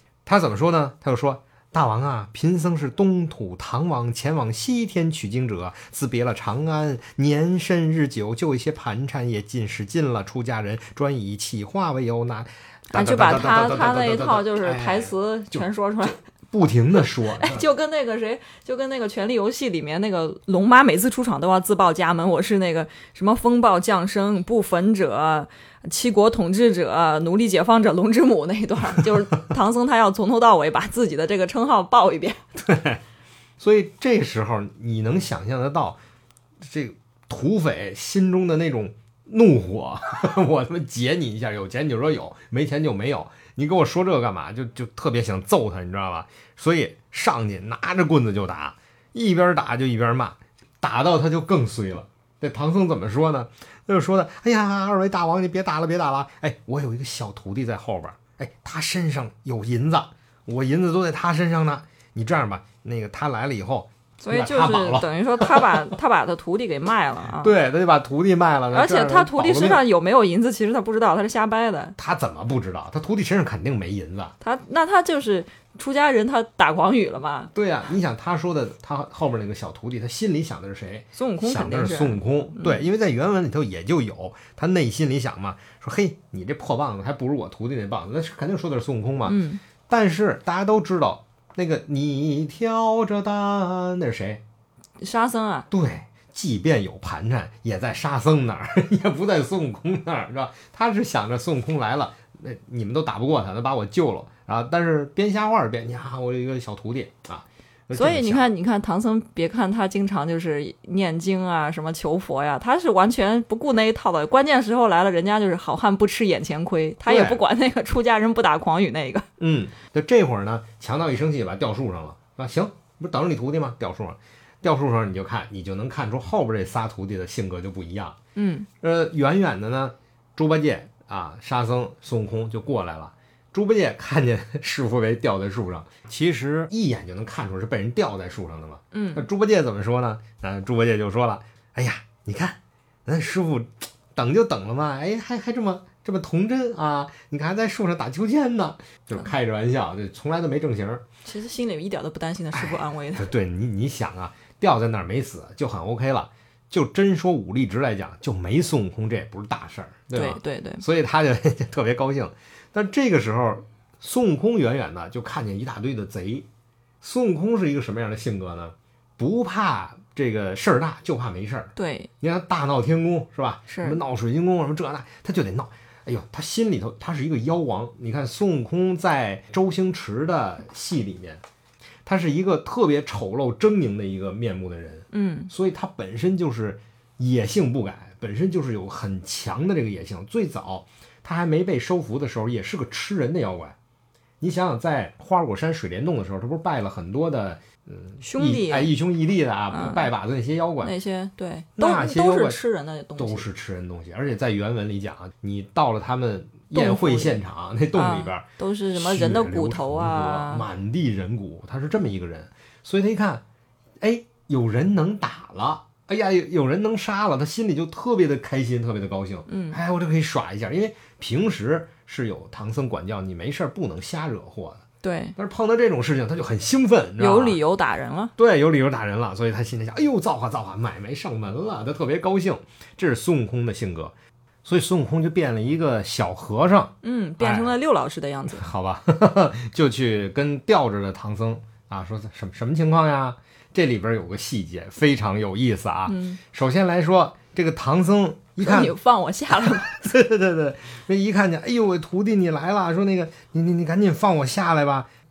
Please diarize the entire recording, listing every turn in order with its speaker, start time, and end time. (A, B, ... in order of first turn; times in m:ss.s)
0:00.3-0:17.6 A
0:12.9-0:16.2 B
0:17.0-0:32.4 B
0:32.6-0:33.0 A
0:33.6-0:36.0 A
0:36.6-1:05.9 A
1:04.2-1:07.5 B
1:07.4-1:09.8 A
1:08.7-1:12.0 B
1:12.0-1:14.3 A
1:14.4-1:17.5 B
1:17.5-1:34.4 A
1:21.2-1:22.8 B
1:29.3-1:29.6 B
1:35.0-1:35.7 B
1:35.7-1:48.5 A
1:47.9-1:59.3 B
1:57.1-1:57.4 A
1:59.4-2:08.2 A
2:08.4-2:08.7 B
2:08.8-2:31.0 A
2:18.9-2:19.2 B
2:31.2-2:33.3 B
2:32.5-2:46.5 A
2:40.1-2:40.8 B
2:47.0-3:01.4 A
2:51.8-2:52.1 B
2:53.7-2:54.0 B
3:02.0-3:13.8 A
3:05.1-3:05.5 B
3:14.4-3:20.9 A
3:18.2-3:18.9 B
3:19.7-3:20.1 B
3:20.8-3:23.5 B
3:21.8-3:22.6 A
3:23.2-3:33.4 A
3:26.7-3:27.4 B
3:27.9-3:30.6 B
3:34.0-3:44.8 A
3:39.5-3:39.8 B
3:45.0-3:45.4 B
3:45.4-3:47.6 A
3:47.2-3:48.3 B
3:48.4-3:54.1 A
3:54.6-3:57.8 A
3:57.0-3:58.6 B
3:58.5-4:09.0 A
4:06.1-4:06.4 B
4:08.6-4:10.0 B
4:09.5-4:15.1 A